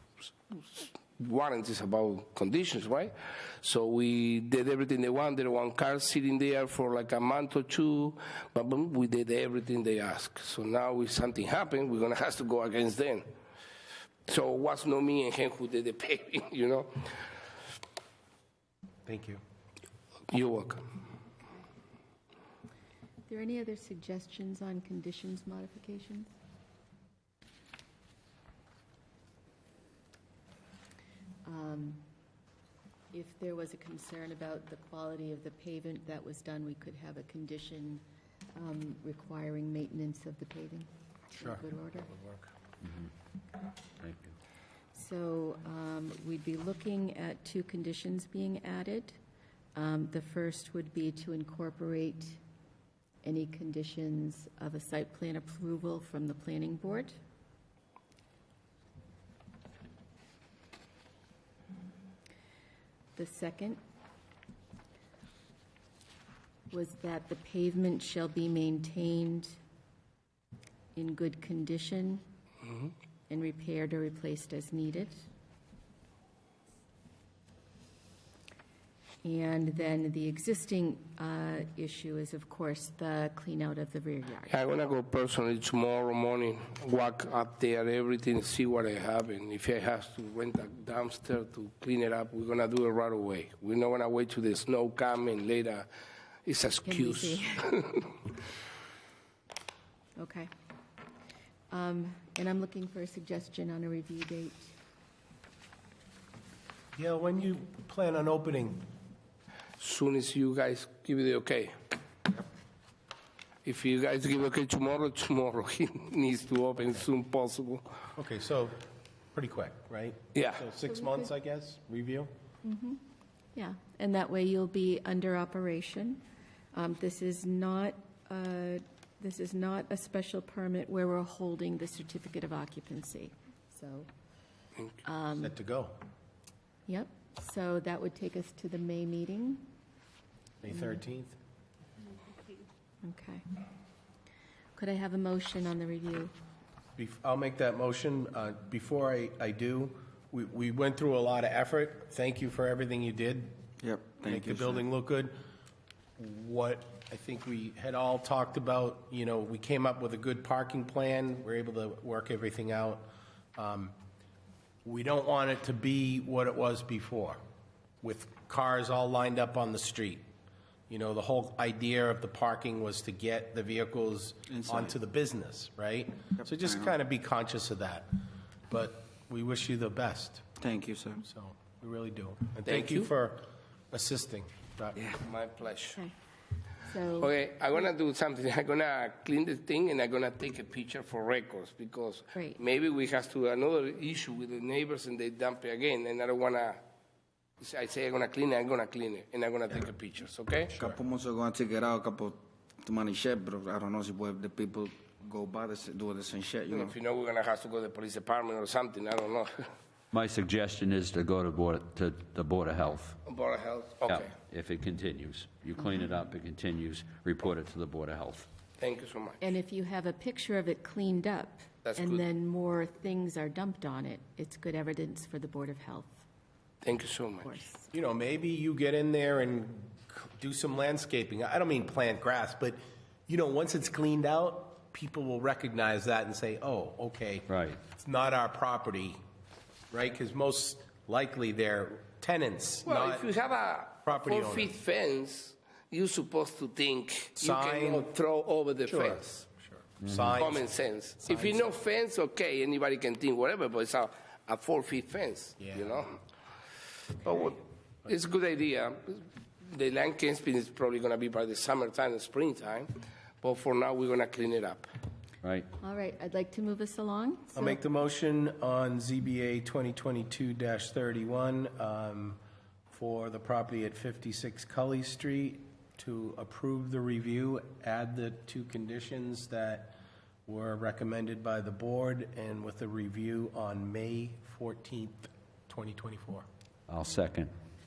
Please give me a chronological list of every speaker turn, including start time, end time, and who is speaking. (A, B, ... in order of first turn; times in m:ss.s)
0:00.5-0:13.2 A
0:14.3-0:17.3 A
0:19.0-0:19.4 B
0:20.3-0:20.8 A
0:23.3-0:26.3 C
0:31.4-0:32.0 C
0:33.1-0:38.0 C
0:38.5-0:42.1 C
0:41.4-0:42.4 B
0:42.8-0:43.1 D
0:44.0-0:44.3 D
0:44.9-0:49.2 C
0:49.7-0:52.4 C
0:53.2-0:57.1 C
1:03.2-1:03.8 C
1:06.7-1:09.6 C
1:10.9-1:12.2 C
1:13.3-1:15.2 C
1:19.2-1:24.6 C
1:24.5-1:35.9 A
1:36.4-1:38.1 A
1:36.8-1:37.7 C
1:40.2-1:40.5 C
1:41.7-1:44.7 C
1:46.9-1:48.8 B
1:49.8-1:51.8 A
1:53.6-1:57.8 A
1:58.2-1:58.8 B
1:59.3-2:02.3 B
2:00.3-2:00.6 A
2:00.8-2:01.3 C
2:02.6-2:03.0 C
2:03.5-2:06.2 C
2:06.7-2:14.1 C
2:15.0-2:15.5 C
2:15.4-2:16.0 B
2:16.9-2:19.7 C
2:20.6-2:21.4 B
2:23.0-2:23.4 C
2:24.8-2:26.3 C
2:27.0-2:33.6 B
2:33.8-2:34.8 E
2:34.2-2:35.3 B
2:36.2-2:43.9 B
2:44.8-2:47.4 B
2:48.0-2:50.2 B
2:50.9-2:58.1 B
2:54.5-2:54.9 E
2:56.5-2:56.9 E
2:58.7-3:00.5 B
3:00.6-3:01.2 E
3:01.2-3:05.0 B
3:02.6-3:03.1 A
3:05.2-3:06.0 A
3:06.8-3:07.3 C
3:07.2-3:16.8 A
3:17.6-3:20.7 A
3:20.7-3:26.9 E
3:26.7-3:29.7 A
3:30.1-3:33.2 D
3:33.2-3:34.3 A
3:34.1-3:38.5 D
3:38.8-3:39.4 A
3:39.4-3:46.2 C
3:41.8-3:42.2 A
3:46.8-3:47.6 A
3:47.4-3:47.9 C
3:47.9-3:59.2 B
3:57.5-3:57.8 D
3:59.9-4:03.3 B
4:02.8-4:09.4 A
4:04.0-4:04.7 B
4:07.4-4:08.1 B
4:08.8-4:11.7 B
4:10.0-4:10.5 D
4:10.4-4:16.2 A
4:15.6-4:16.0 B
4:17.2-4:22.9 A
4:23.4-4:24.9 A
4:25.4-4:25.7 D
4:25.8-4:27.8 C
4:27.5-4:32.4 B
4:32.9-4:46.4 B
4:46.9-4:47.5 D